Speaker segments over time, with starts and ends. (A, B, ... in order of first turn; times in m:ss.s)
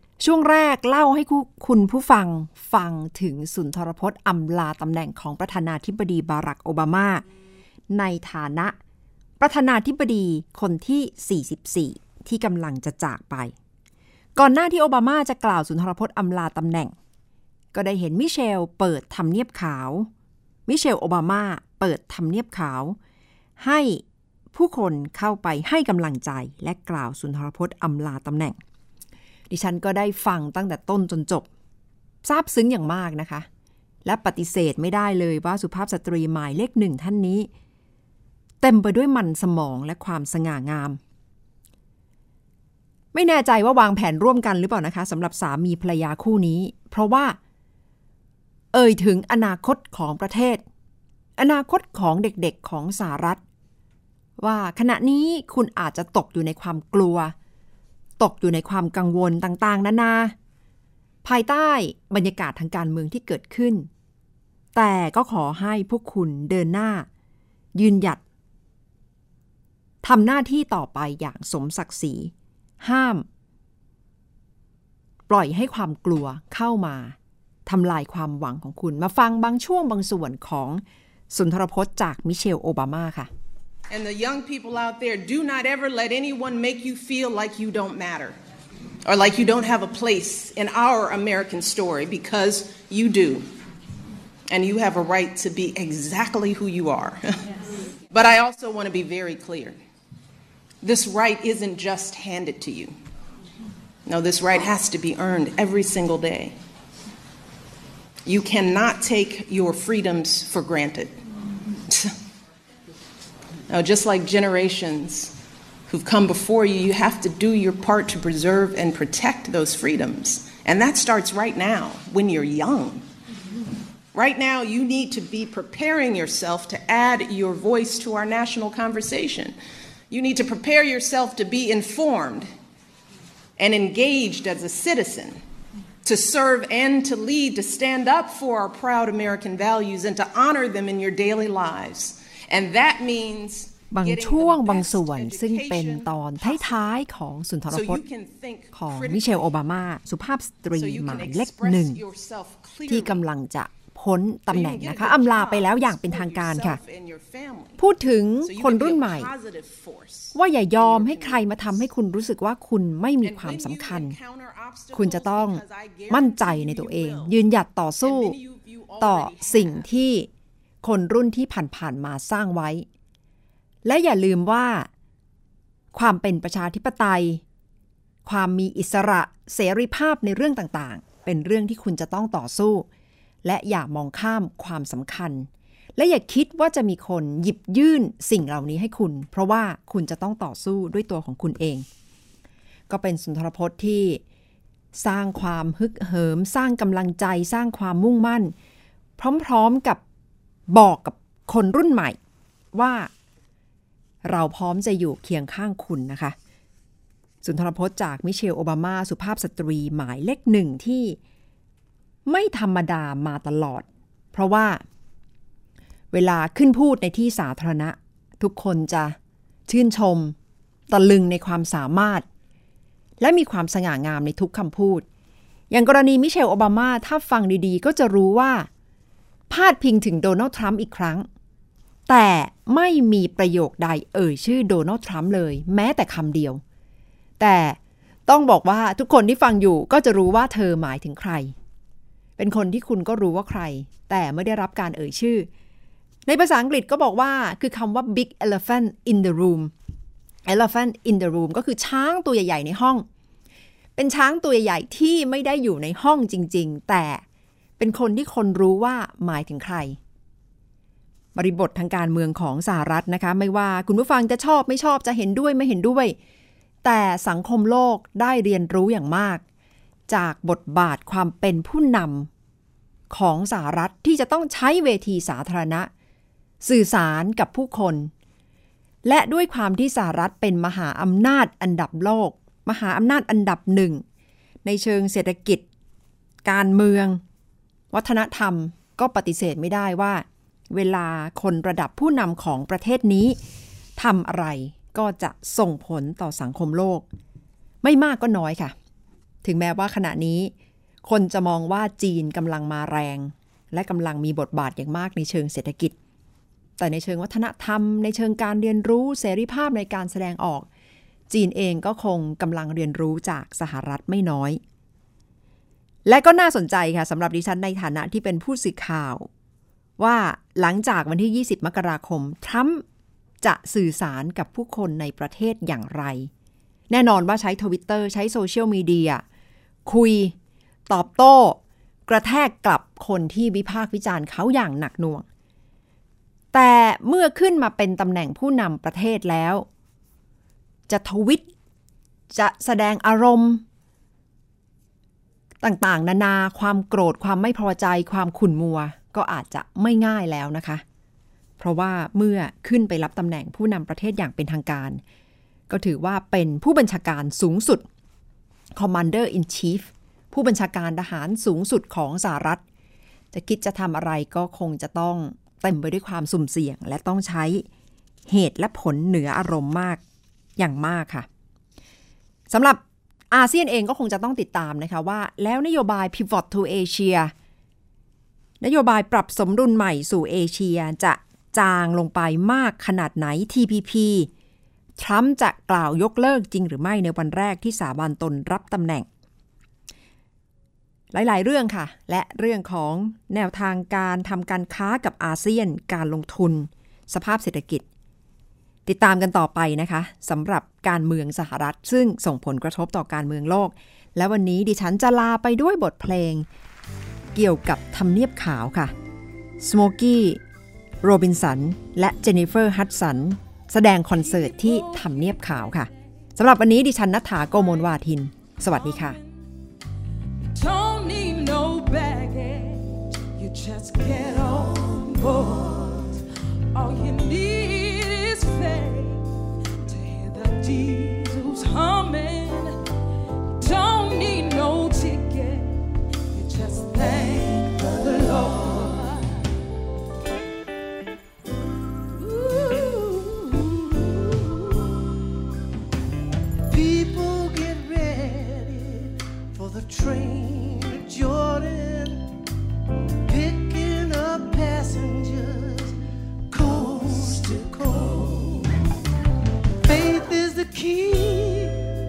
0:00.2-0:07.2 A
0:07.9-0:08.8 A
0:09.4-0:13.5 A
0:14.4-0:16.9 A
0:17.7-0:20.1 A
0:20.7-0:23.0 A
0:23.6-0:28.6 A
0:29.5-0:31.5 A
0:32.2-0:33.5 A
0:34.0-0:37.5 A
0:38.6-0:41.0 A
0:43.1-0:47.4 A
0:48.7-0:50.6 A
0:51.4-0:53.4 A
0:54.4-0:57.3 A
0:58.2-1:00.4 A
1:01.2-1:03.9 A
1:04.8-1:07.1 A
1:07.8-1:08.2 A
1:10.0-1:13.3 A
1:15.3-1:23.3 A
1:23.9-1:28.4 B
1:29.0-1:33.5 B
1:34.5-1:39.8 B
1:40.8-1:42.9 B
1:44.1-1:46.6 B
1:48.2-1:51.2 B
1:51.9-1:52.2 B
1:53.7-2:03.1 B
2:04.1-2:09.6 B
2:10.1-2:12.5 B
2:13.6-2:15.4 B
2:16.0-2:27.0 B
2:23.9-2:28.0 A
2:27.7-2:29.6 B
2:28.7-2:32.0 A
2:30.7-2:33.2 B
2:32.9-2:36.8 A
2:34.5-2:37.8 B
2:37.8-2:39.3 A
2:38.4-2:41.9 B
2:40.3-2:44.2 A
2:43.2-2:47.4 B
2:44.9-2:48.4 A
2:48.0-2:49.9 B
2:49.0-2:50.3 A
2:50.8-2:52.9 A
2:53.8-2:54.9 A
2:55.9-2:57.4 A
2:58.2-3:02.9 A
3:03.4-3:11.9 A
3:12.9-3:14.2 A
3:15.0-3:18.5 A
3:19.2-3:20.0 A
3:20.7-3:22.2 A
3:22.7-3:23.1 A
3:24.3-3:26.4 A
3:27.4-3:31.2 A
3:32.3-3:34.8 A
3:36.1-3:39.2 A
3:39.7-3:40.4 A
3:40.9-3:42.3 A
3:43.2-3:45.0 A
3:45.7-3:48.7 A
3:49.5-3:51.3 A
3:52.1-3:56.6 A
3:57.4-4:01.5 A
4:02.4-4:05.5 A
4:06.3-4:09.7 A
4:10.5-4:13.1 A
4:14.0-4:17.2 A
4:17.8-4:20.0 A
4:21.4-4:26.2 A
4:26.8-4:29.4 A
4:30.1-4:32.3 A
4:33.1-4:35.9 A
4:36.6-4:38.1 A
4:39.0-4:44.0 A
4:44.6-4:45.6 A
4:46.4-4:47.2 A
4:47.9-4:53.4 A
4:54.0-4:57.1 A
4:57.8-4:58.7 A
4:59.4-5:00.5 A
5:01.0-5:06.0 A
5:06.8-5:10.7 A
5:11.3-5:14.6 A
5:16.1-5:19.3 A
5:20.0-5:22.8 A
5:23.4-5:26.3 A
5:26.9-5:29.2 A
5:29.9-5:30.3 A
5:30.9-5:35.2 A
5:36.5-5:39.7 A
5:40.9-5:41.5 A
5:42.3-5:43.6 A
5:45.6-5:50.8 A
5:51.6-5:55.0 A
5:55.7-5:57.8 A
5:58.8-6:02.6 A
6:03.3-6:07.6 A
6:08.3-6:10.0 A
6:10.6-6:11.3 A
6:12.5-6:12.8 A
6:13.3-6:17.3 A
6:18.6-6:24.3 A
6:25.0-6:29.1 A
6:31.1-6:37.8 A
6:38.9-6:46.5 A
6:47.3-6:48.9 A
6:49.6-6:50.4 A
6:51.0-6:59.2 A
6:54.2-6:55.5 C
6:58.7-6:59.2 C
7:00.5-7:06.1 C
7:06.7-7:09.2 C
7:09.8-7:12.8 C
7:13.6-7:19.4 C
7:22.2-7:23.8 C
7:26.7-7:32.2 D
7:33.2-7:35.9 D
7:36.5-7:38.8 D
7:39.8-7:41.8 D